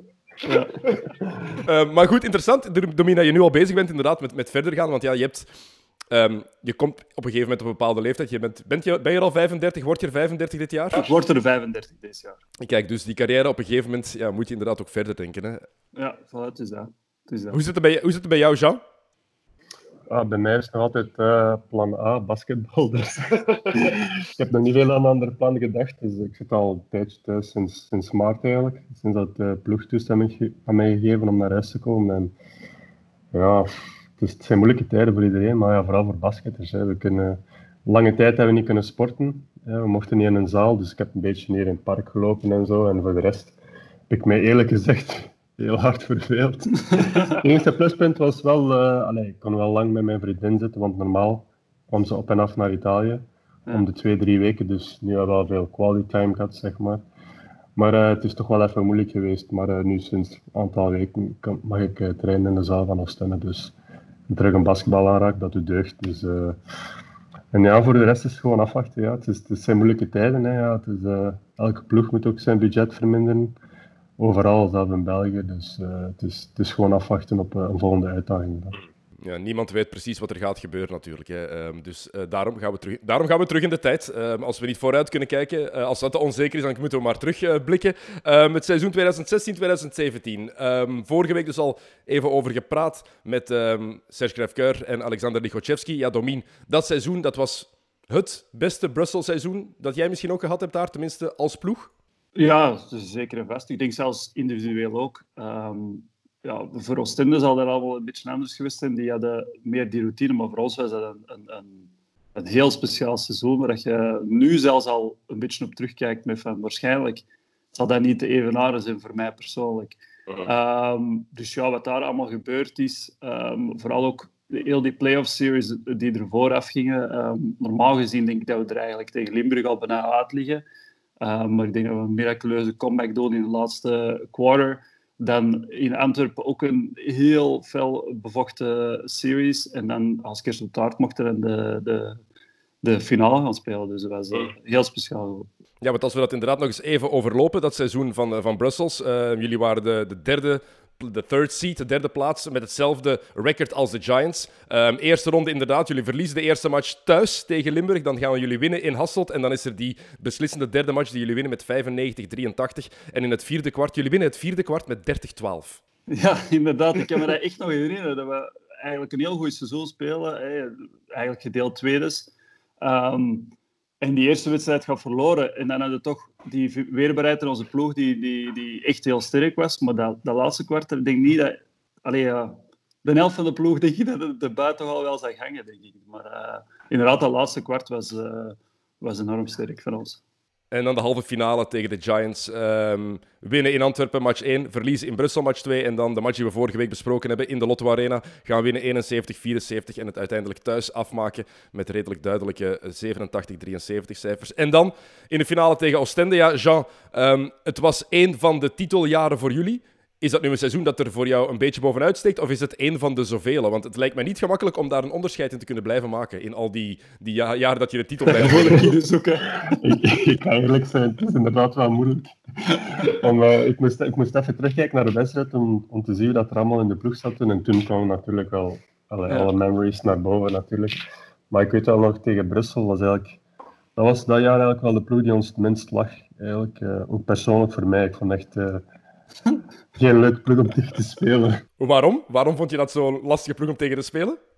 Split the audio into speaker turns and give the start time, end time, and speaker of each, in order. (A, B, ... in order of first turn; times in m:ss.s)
0:00.4-0:00.8 A
0:00.9-0:01.6 B
0:01.6-0:05.5 C
0:06.1-0:11.1 C
0:10.9-0:12.4 A
0:12.6-0:15.6 C
0:16.0-0:17.6 A
0:17.5-0:18.8 C
0:20.1-0:32.3 B
0:33.3-0:43.6 B
0:44.1-0:57.0 B
0:46.9-0:47.4 A
0:57.8-1:03.7 B
1:04.3-1:06.6 B
1:07.5-1:13.5 B
1:14.2-1:18.8 B
1:19.2-1:41.9 C
1:42.4-2:10.6 A
2:11.2-2:22.2 A
2:22.8-2:25.5 A
2:25.8-2:45.8 C
2:46.1-3:10.2 A
3:10.7-3:38.9 C
3:38.3-3:40.0 A
3:39.6-3:51.0 B
3:49.3-3:49.5 A
3:51.5-3:53.4 B
3:54.0-3:58.8 B
4:00.0-4:01.6 B
4:01.8-4:04.4 C